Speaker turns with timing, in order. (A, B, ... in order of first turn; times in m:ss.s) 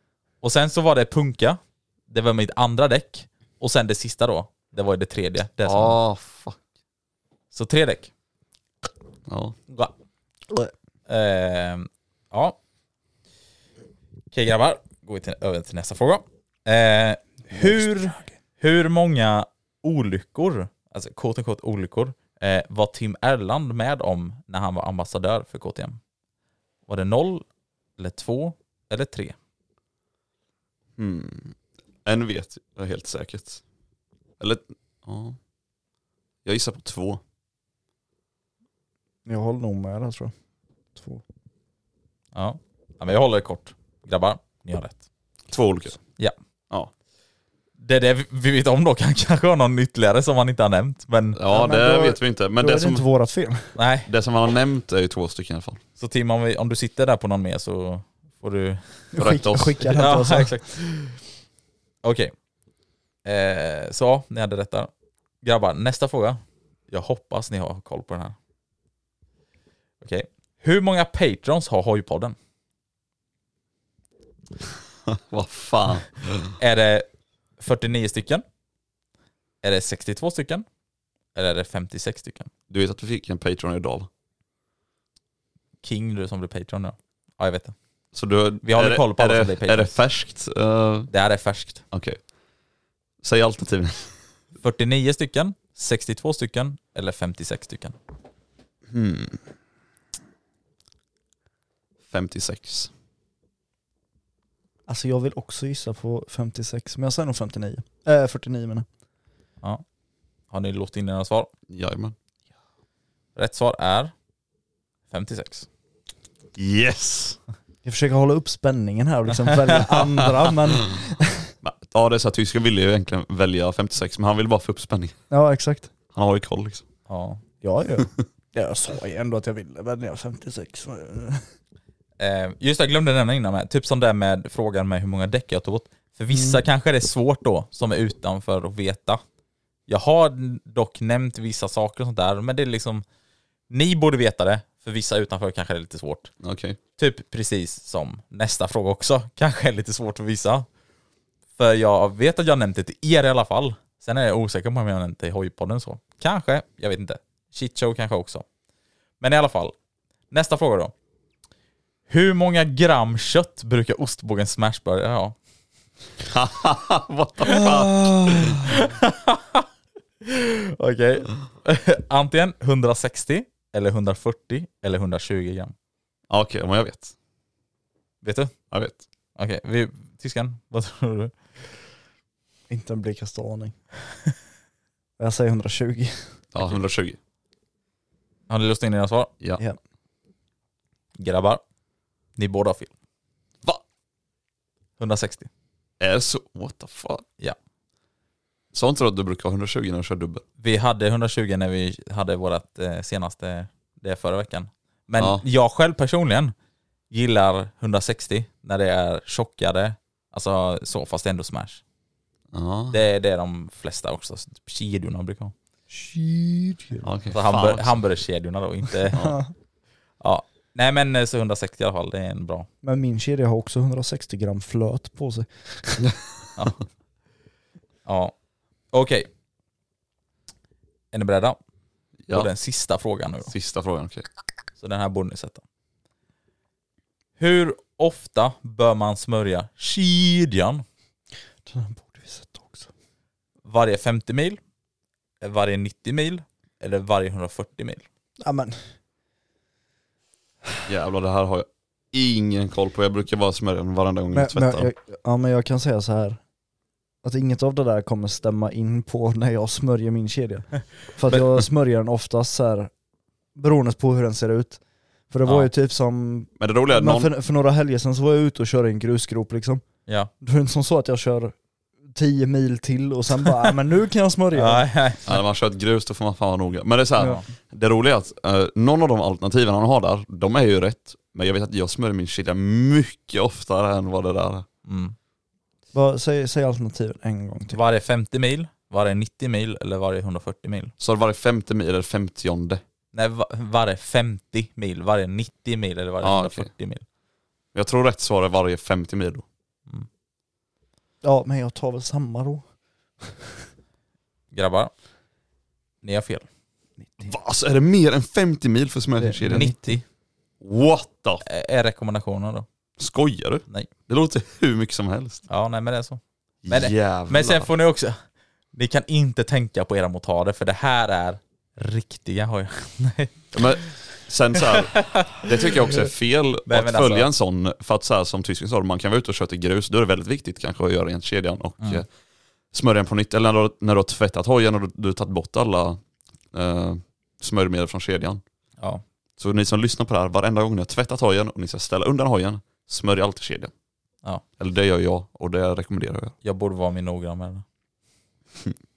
0:00.4-0:06.0 A
0:05.6-0:06.6 B
0:07.5-0:08.1 A
0:09.3-0:09.6 B
0:11.1-0:12.6 A
0:14.3-0:26.0 A
0:17.5-0:18.2 C
0:26.9-0:27.4 A
0:28.0-0:29.3 A
0:31.0-0:33.6 B
0:34.4-0:35.4 B
0:36.4-0:37.2 B
0:39.2-0:40.3 C
0:41.0-0:41.2 C
0:42.3-0:45.0 A
0:45.5-0:46.0 B
0:47.8-0:51.4 A
0:51.3-0:53.0 B
0:51.5-0:53.7 C
0:53.8-0:54.1 A
0:54.1-0:55.8 B
0:56.0-0:58.8 A
0:59.1-1:00.6 C
0:59.2-1:00.1 B
1:00.0-1:01.1 A
1:02.0-1:02.3 A
1:03.2-1:04.9 A
1:05.4-1:08.3 A
1:10.0-1:12.4 A
1:15.1-1:16.5 B
1:16.6-1:17.0 A
1:17.6-1:18.4 A
1:19.6-1:20.6 A
1:21.3-1:22.5 A
1:22.7-1:24.1 B
1:25.8-1:27.7 A
1:28.1-1:31.1 B
1:28.6-1:30.0 A
1:31.1-1:31.8 A
1:31.9-1:32.2 B
1:33.2-1:34.1 B
1:34.6-1:38.0 A
1:38.9-1:39.4 B
1:42.1-1:42.9 B
1:44.9-1:48.8 C
1:50.5-1:51.5 A
1:51.7-1:52.1 B
1:53.4-1:54.1 A
1:55.1-1:55.7 A
1:56.6-1:57.4 B
1:57.8-2:01.5 C
2:01.6-2:05.2 B
2:05.3-2:05.9 C
2:06.1-2:06.8 B
2:07.1-2:07.4 A
2:07.6-2:11.4 C
2:12.2-2:19.2 A
2:16.3-2:16.6 C
2:19.9-2:23.0 A
2:23.7-2:26.3 A
2:26.4-2:26.8 B
2:27.0-2:30.7 A
2:31.6-2:38.4 A
2:39.2-2:39.7 A
2:40.3-2:40.9 A
2:42.1-2:45.4 A
2:46.3-2:48.6 B
2:47.5-2:48.5 C
2:48.6-2:49.6 A
2:50.2-2:55.7 A
2:56.3-2:57.1 B
2:58.2-2:58.5 A
2:58.7-2:59.0 B
2:59.4-3:01.4 A
3:02.7-3:03.7 C
3:05.2-3:06.1 C
3:06.5-3:07.2 B
3:08.5-3:09.3 A
3:11.2-3:11.6 A
3:12.4-3:12.9 A
3:15.0-3:15.5 A
3:16.0-3:17.2 B
3:18.7-3:20.4 B
3:20.6-3:26.5 A
3:25.2-3:25.4 B
3:27.1-3:31.8 A
3:32.5-3:33.0 B
3:32.9-3:35.5 A
3:35.9-3:37.1 C
3:37.0-3:38.0 B
3:37.3-3:39.3 A
3:39.1-3:39.5 C
3:40.2-3:42.7 A
3:42.8-3:46.1 C
3:48.0-3:48.3 A
3:48.9-3:49.3 A
3:51.1-3:51.6 A
3:52.3-3:53.5 A
3:53.5-3:54.2 B
3:54.8-3:55.6 A
3:57.4-4:00.8 A
4:01.6-4:02.9 C
4:03.6-4:04.6 A
4:05.4-4:08.0 A
4:08.4-4:08.8 C
4:10.9-4:14.9 B
4:14.3-4:16.4 C
4:17.2-4:22.9 C
4:23.5-4:29.8 C
4:26.6-4:27.3 B
4:30.4-4:31.5 C
4:32.1-4:34.9 C
4:34.5-4:35.3 A
4:35.2-4:44.6 B
4:44.8-4:45.2 A
4:45.9-4:47.8 C
4:47.7-4:50.9 A
4:51.0-4:52.8 B
4:53.1-4:57.0 A
4:56.2-4:56.7 B
4:57.7-4:59.4 B
5:01.2-5:02.6 C
5:04.5-5:04.9 A
5:06.0-5:06.4 A
5:07.0-5:07.3 C
5:07.2-5:09.7 B
5:09.2-5:10.0 C
5:09.5-5:10.0 A
5:10.6-5:11.4 B
5:11.4-5:12.6 A
5:13.0-5:15.4 B
5:15.5-5:18.2 A
5:16.6-5:17.7 B
5:18.7-5:23.3 A
5:23.5-5:32.1 B
5:24.9-5:25.4 A
5:26.7-5:27.3 A
5:32.7-5:36.0 B
5:36.5-5:38.4 B
5:39.4-5:43.7 B
5:44.6-5:46.3 B
5:46.4-5:47.6 A